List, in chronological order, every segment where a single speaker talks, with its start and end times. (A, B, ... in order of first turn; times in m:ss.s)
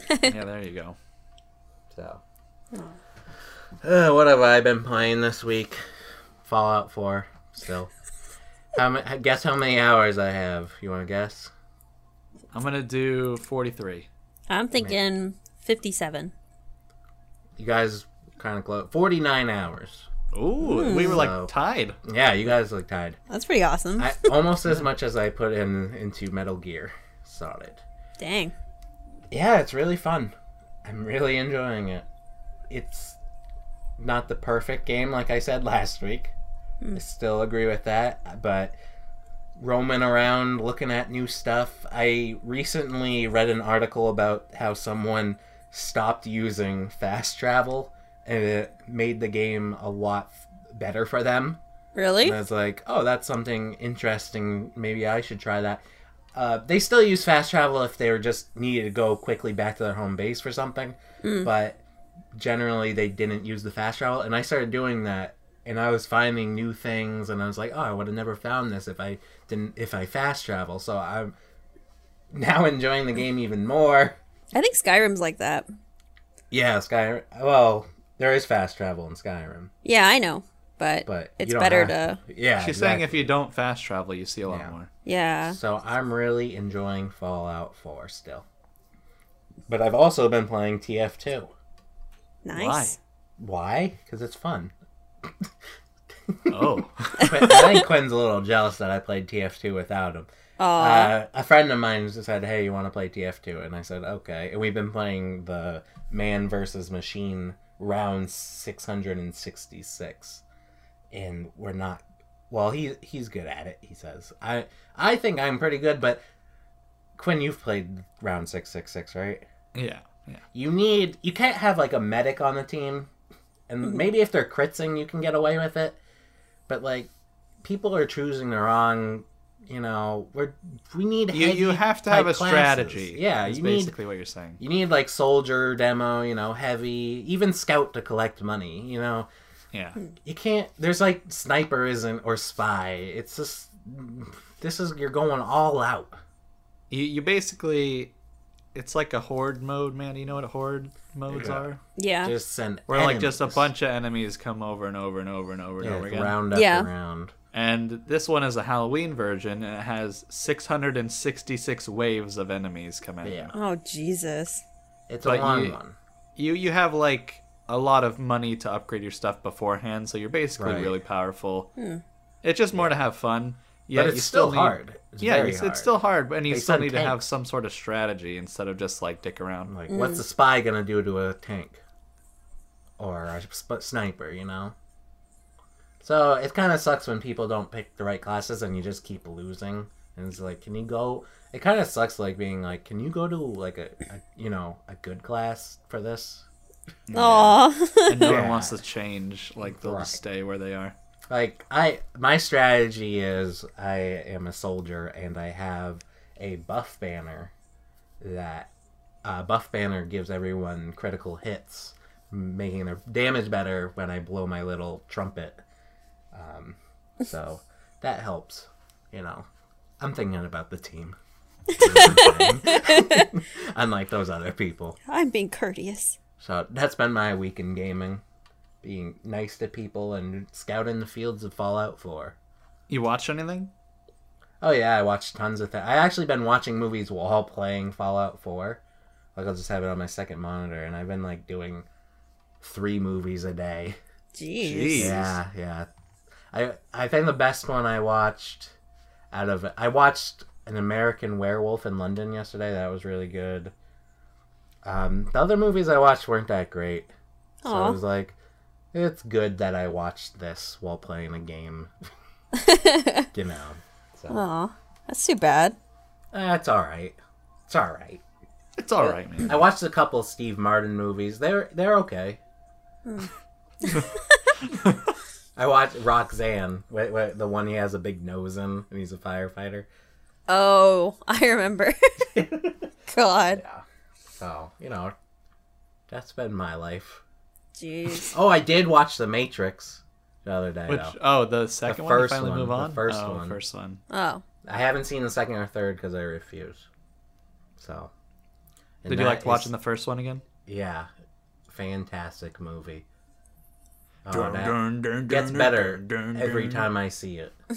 0:00.2-0:01.0 A
0:01.9-0:02.2 B
0:03.8-0:05.8 B
0:06.4-0:07.9 B
0:08.8-0:11.5 B
0:12.5-0:14.1 A
0:14.5-0:16.3 C
0:17.6-0:20.1 B
0:20.3-0:22.0 A
0:20.6-0:21.2 C
0:20.9-0:21.5 B
0:22.0-0:23.2 B
0:23.3-0:24.3 C
0:24.0-0:27.8 B
0:28.2-0:28.6 C
0:29.3-0:30.3 B
0:30.8-0:32.1 B
0:32.7-0:33.2 B
0:34.0-0:36.3 B
0:37.0-0:38.8 B
0:39.6-0:51.6 B
0:52.0-0:52.4 C
0:52.2-0:55.8 B
0:56.4-1:01.8 B
1:01.2-1:01.5 C
1:02.3-1:11.4 B
1:12.3-1:14.2 B
1:14.5-1:15.7 C
1:16.5-1:19.7 B
1:19.8-1:22.2 C
1:21.1-1:23.3 B
1:22.6-1:24.9 A
1:24.5-1:24.7 B
1:25.0-1:25.6 C
1:25.5-1:28.5 B
1:29.7-1:31.5 B
1:32.4-1:33.0 C
1:32.5-1:33.0 A
1:33.4-1:34.7 B
1:35.2-1:35.5 B
1:36.3-1:50.4 B
1:36.5-1:37.8 A
1:37.2-1:37.8 C
1:40.6-1:41.2 C
1:51.1-1:56.2 B
1:57.2-1:59.5 B
1:59.8-2:00.4 A
2:00.5-2:03.1 B
2:03.7-2:06.0 B
2:06.7-2:07.1 B
2:07.6-2:13.9 B
2:11.3-2:14.6 A
2:14.6-2:19.3 B
2:20.2-2:26.2 B
2:26.9-2:28.1 A
2:28.8-2:31.8 A
2:31.3-2:31.7 B
2:32.0-2:32.3 C
2:32.2-2:33.7 B
2:32.9-2:36.4 A
2:35.8-2:37.3 B
2:36.5-2:36.9 C
2:37.5-2:43.5 A
2:43.2-2:43.6 B
2:43.5-2:44.6 C
2:45.1-2:46.0 B
2:45.2-2:45.8 A
2:46.4-2:51.7 A
2:50.6-2:51.0 B
2:51.8-2:52.0 C
2:52.4-2:59.7 A
2:54.0-2:55.9 B
2:56.5-2:57.2 B
2:59.7-3:01.8 B
2:59.9-3:00.2 C
3:03.0-3:04.8 B
3:06.0-3:16.5 B
3:17.1-3:17.6 A
3:17.1-3:18.4 C
3:18.1-3:21.0 A
3:18.2-3:18.8 B
3:19.6-3:20.2 B
3:21.3-3:27.5 B
3:28.2-3:28.7 B
3:29.2-3:35.6 B
3:36.3-3:39.5 B
3:40.0-3:41.2 B
3:41.7-3:43.3 C
3:41.8-3:45.0 B
3:45.1-3:46.2 C
3:46.4-3:48.2 B
3:48.8-3:52.4 B
3:52.9-3:53.7 A
3:54.6-3:58.8 B
3:59.4-4:01.9 B
4:02.6-4:04.0 B
4:04.4-4:05.2 C
4:04.6-4:05.4 A
4:05.0-4:05.9 B
4:06.5-4:08.7 B
4:09.3-4:13.7 B
4:14.8-4:17.1 B
4:17.6-4:18.0 C
4:17.6-4:18.4 B
4:18.9-4:21.9 B
4:22.5-4:23.3 C
4:23.3-4:24.4 B
4:24.3-4:25.8 C
4:26.3-4:27.2 B
4:27.7-4:28.2 B
4:28.8-4:29.6 A
4:29.0-4:32.4 B
4:33.0-4:33.3 C
4:33.8-4:34.2 C
4:35.6-4:39.9 B
4:40.5-4:42.3 C
4:42.3-4:42.9 B
4:43.1-4:43.6 C
4:43.6-4:43.8 B
4:44.4-4:45.1 B
4:46.1-4:47.2 B
4:47.8-4:48.4 C
4:48.3-4:51.2 B
4:50.9-4:54.0 A
4:51.9-4:53.6 B
4:54.1-4:54.4 C
4:54.6-4:56.9 B
4:57.8-4:58.1 B
4:59.0-4:59.7 B
4:59.1-5:00.4 A
5:00.7-5:01.1 B
5:01.7-5:03.0 B
5:04.2-5:07.5 B
5:04.3-5:06.9 A